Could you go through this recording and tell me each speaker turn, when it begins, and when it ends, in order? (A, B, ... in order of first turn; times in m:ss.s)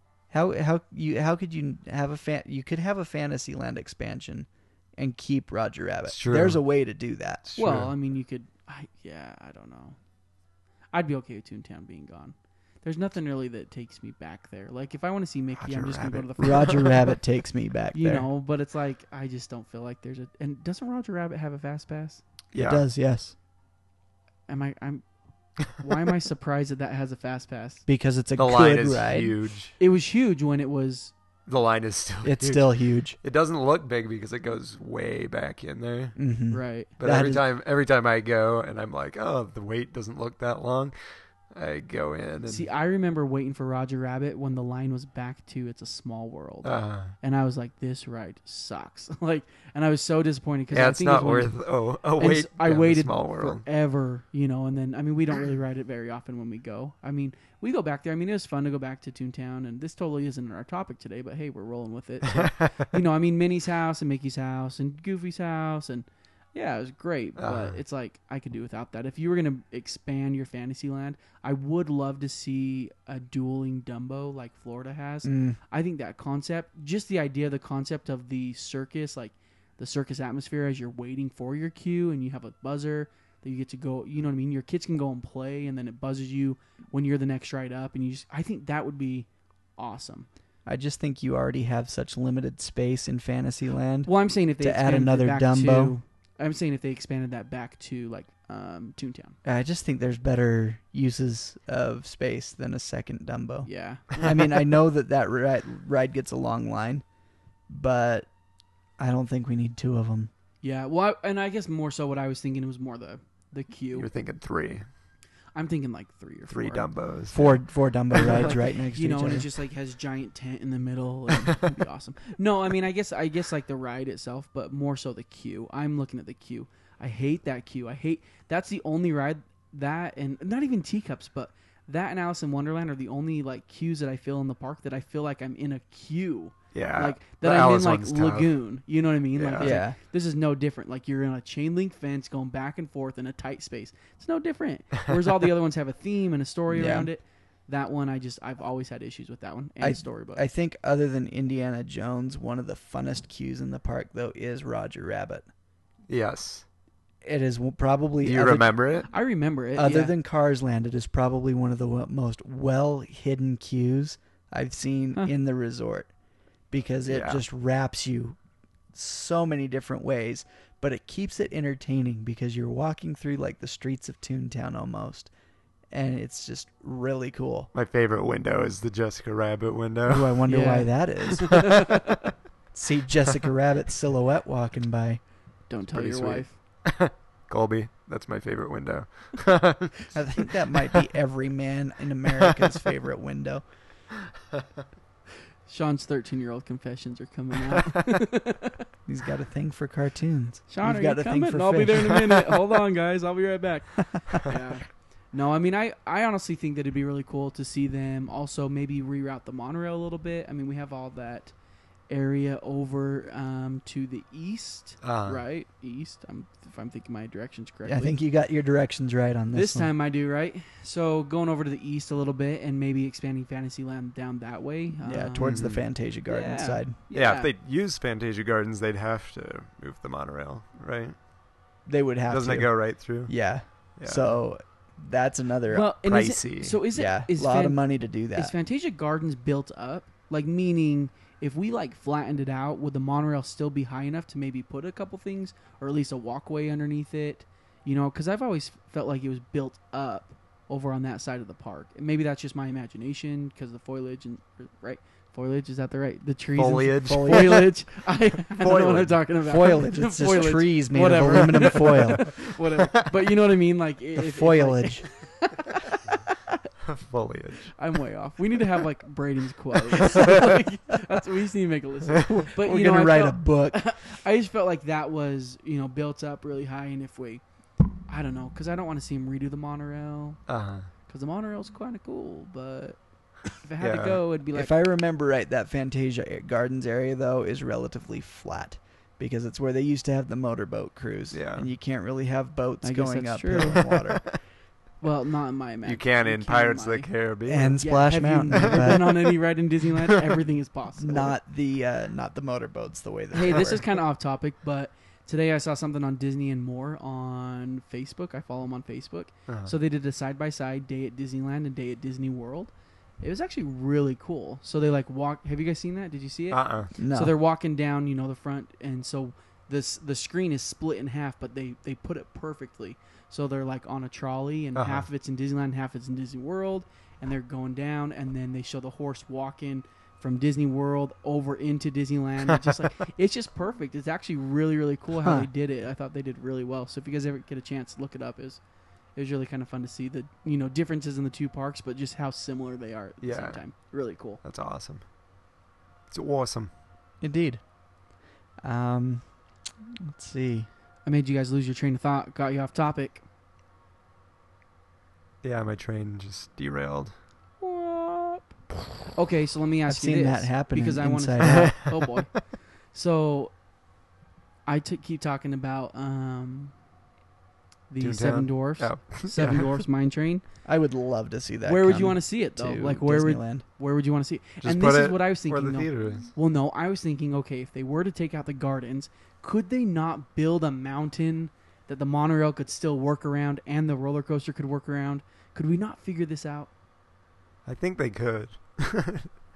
0:00.3-0:07.4 A
0:06.1-0:06.6 B
0:07.4-0:07.9 B
0:07.6-0:10.0 C
0:10.9-0:17.0 C
0:15.6-0:16.7 B
0:16.4-0:18.3 A
0:17.9-0:22.2 C
0:22.5-0:22.8 B
0:22.5-0:23.3 A
0:24.5-0:25.0 C
0:25.6-0:27.8 C
0:27.9-0:29.4 A
0:28.4-0:29.8 B
0:29.8-0:31.1 C
0:31.5-0:36.2 B
0:32.2-0:33.2 A
0:36.2-0:37.4 A
0:36.5-0:36.9 C
0:36.9-0:41.0 B
0:41.5-0:42.7 B
0:42.4-0:51.6 C
0:46.6-0:47.1 B
0:50.7-0:53.6 B
0:52.2-1:30.3 C
1:02.3-1:02.8 B
1:07.4-1:07.8 B
1:15.2-1:15.6 A
1:30.6-1:36.0 A
1:34.0-1:39.4 C
1:39.4-1:47.0 A
1:43.6-1:44.4 C
1:47.7-1:48.3 A
1:49.0-1:50.3 A
1:50.6-1:54.1 C
1:53.9-1:54.9 B
1:55.5-1:56.9 C
1:56.5-1:57.5 B
1:57.3-1:59.5 A
1:58.1-2:30.4 C
2:16.7-2:18.5 B
2:19.3-2:19.7 B
2:19.6-2:20.0 A
2:26.7-2:27.1 A
2:29.8-2:35.4 A
2:36.1-2:36.6 B
2:37.2-2:38.7 A
2:38.2-2:39.1 B
2:39.1-2:40.1 C
2:39.8-2:46.1 A
2:46.7-2:48.4 A
2:47.0-2:47.4 B
2:48.9-2:55.3 A
2:55.9-2:57.7 A
2:57.7-3:00.4 B
3:00.0-3:01.9 A
3:00.5-3:02.0 C
3:02.7-3:05.2 A
3:05.7-3:06.5 C
3:05.9-3:10.1 B
3:10.1-3:13.6 A
3:15.7-3:18.8 C
3:19.0-3:22.7 A
3:20.7-3:31.5 C
3:32.1-3:38.2 C
3:35.0-3:35.4 B
3:37.8-3:39.9 A
3:39.5-3:45.6 C
3:45.0-3:47.0 A
3:45.4-3:45.8 B
3:46.3-3:47.5 C
3:47.1-3:51.2 B
3:51.8-3:56.0 A
3:52.3-3:54.4 B
3:55.7-4:26.3 C
3:56.0-3:56.8 B
3:56.9-3:58.5 A
4:16.6-4:17.7 B
4:17.0-4:17.7 A
4:18.5-4:19.2 B
4:19.4-4:22.3 A
4:24.2-4:25.1 A
4:26.8-4:27.8 B
4:27.8-4:37.4 C
4:30.0-4:30.4 B
4:32.2-4:32.4 B
4:32.5-4:34.0 A
4:38.1-4:40.4 C
4:40.5-4:40.9 B
4:41.1-4:44.7 C
4:43.8-4:44.2 B
4:44.5-4:54.2 A
4:51.3-4:51.7 B
4:52.8-4:53.9 C
4:53.6-4:54.3 B
4:55.0-4:57.1 C
4:55.8-4:57.8 B
4:57.5-4:59.2 A
4:57.8-5:01.3 C
4:58.6-4:59.1 B
5:01.0-5:03.8 A
5:03.3-5:38.6 C
5:09.5-5:09.7 B
5:16.5-5:16.9 B
5:17.0-5:17.3 A
5:24.8-5:25.0 B
5:35.2-5:35.5 A
5:39.1-5:44.4 C
5:43.2-5:45.1 B
5:46.1-5:46.7 B
5:47.2-5:47.6 A
5:48.6-5:49.4 A
5:50.0-5:50.7 A
5:51.0-5:53.2 C
5:55.4-5:57.1 B
5:57.6-5:58.5 C
5:59.1-6:03.5 C
5:59.9-6:01.8 A
6:01.4-6:02.4 B
6:04.6-6:06.7 C
6:07.9-6:10.4 C
6:08.0-6:09.8 B
6:10.6-6:13.6 A
6:11.6-6:26.7 C
6:14.6-6:16.3 B
6:27.6-6:29.4 B